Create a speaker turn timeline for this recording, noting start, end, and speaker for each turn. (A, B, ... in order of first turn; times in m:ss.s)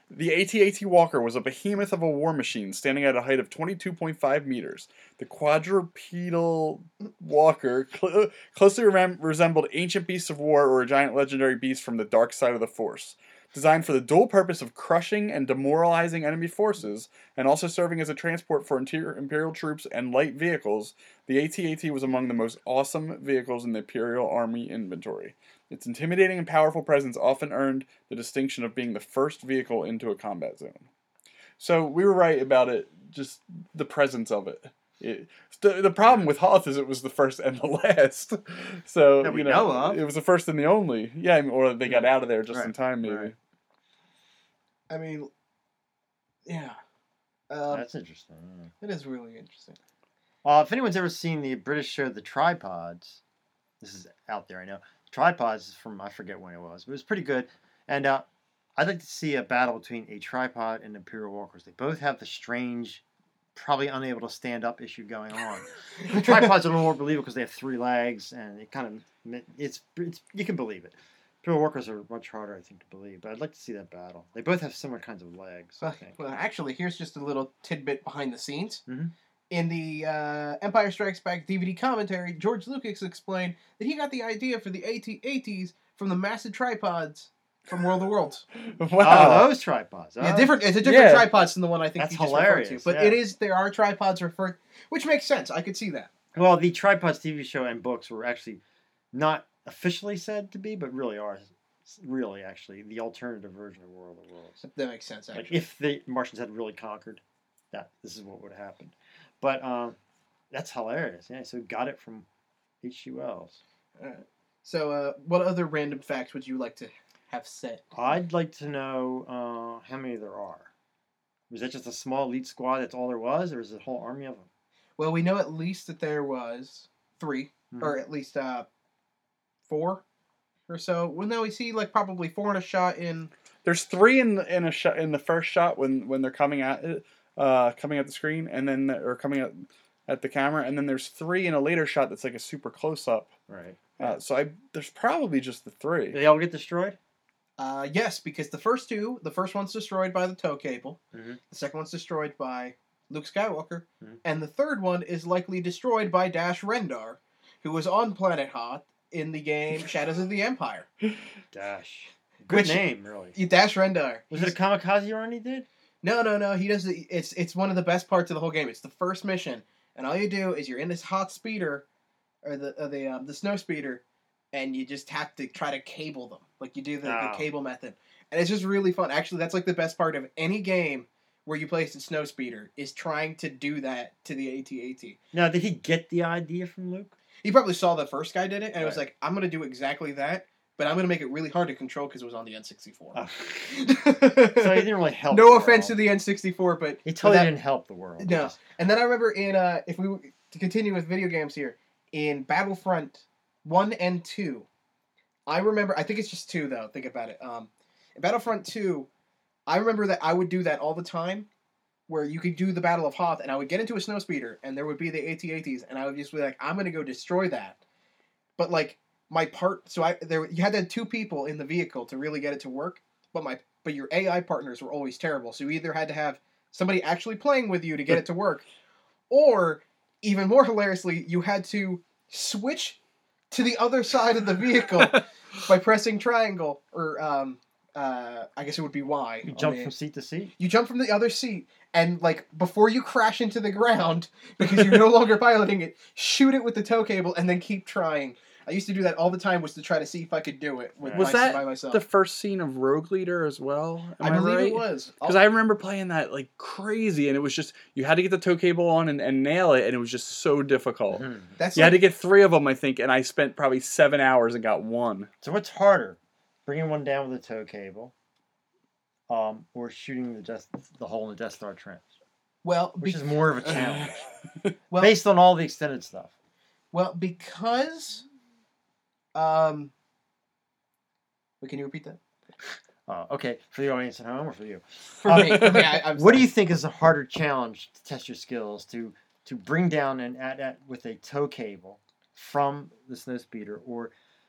0:00.1-0:30.9 A
0:31.6-0:43.4 A
0:39.2-0:40.0 B
0:41.8-0:43.3 B
0:44.9-0:45.3 C
0:46.5-0:46.8 C
0:47.5-0:47.9 C
0:47.7-0:48.7 B
0:48.8-0:49.8 C
0:50.4-0:53.2 B
0:53.8-1:03.0 B
1:03.6-1:16.2 B
1:15.8-1:18.8 C
1:18.9-1:19.1 B
1:19.5-1:28.4 C
1:28.6-1:29.5 A
1:29.0-1:30.6 B
1:30.2-1:36.1 C
1:30.8-1:31.3 A
1:32.0-1:33.2 B
1:36.3-1:38.6 B
1:39.1-1:44.6 B
1:44.6-1:45.6 C
1:45.3-1:50.0 B
1:50.5-1:52.3 B
1:52.8-1:53.6 B
1:54.0-1:57.8 C
1:57.9-2:00.7 B
2:01.5-2:04.5 B
2:05.0-2:08.7 C
2:07.7-2:08.0 B
2:09.7-2:10.0 C
2:10.7-2:13.3 C
2:13.6-2:23.3 A
2:23.5-2:24.2 B
2:24.0-2:26.2 A
2:26.1-2:27.0 B
2:27.6-2:31.0 C
2:31.1-2:31.4 B
2:31.5-2:40.9 C
2:41.5-2:43.4 B
2:42.5-2:42.8 C
2:43.4-2:44.5 C
2:44.3-2:45.7 B
2:46.0-2:51.8 C
2:52.4-2:54.0 C
2:54.5-3:05.2 C
2:57.0-2:57.5 B
3:05.3-3:07.2 B
3:07.4-3:17.5 C
3:08.8-3:09.0 B
3:13.1-3:13.7 B
3:14.6-3:16.0 B
3:17.0-3:18.6 B
3:18.2-3:24.7 C
3:25.5-3:29.1 C
3:29.7-3:31.5 C
3:32.1-3:37.8 C
3:38.6-3:48.6 C
3:49.3-3:53.0 C
3:53.5-3:59.9 C
3:59.5-4:00.5 B
4:00.6-4:12.0 C
4:11.0-4:11.4 B
4:11.2-4:25.3 A
4:14.2-4:15.4 C
4:21.1-4:21.6 B
4:21.6-4:22.0 C
4:25.4-4:28.1 B
4:29.3-4:32.1 B
4:32.6-4:33.9 C
4:33.0-4:34.2 B
4:35.0-4:36.3 B
4:36.9-4:38.2 C
4:39.4-4:39.9 C
4:41.6-4:42.2 C
4:43.1-4:54.1 B
4:45.2-4:46.5 C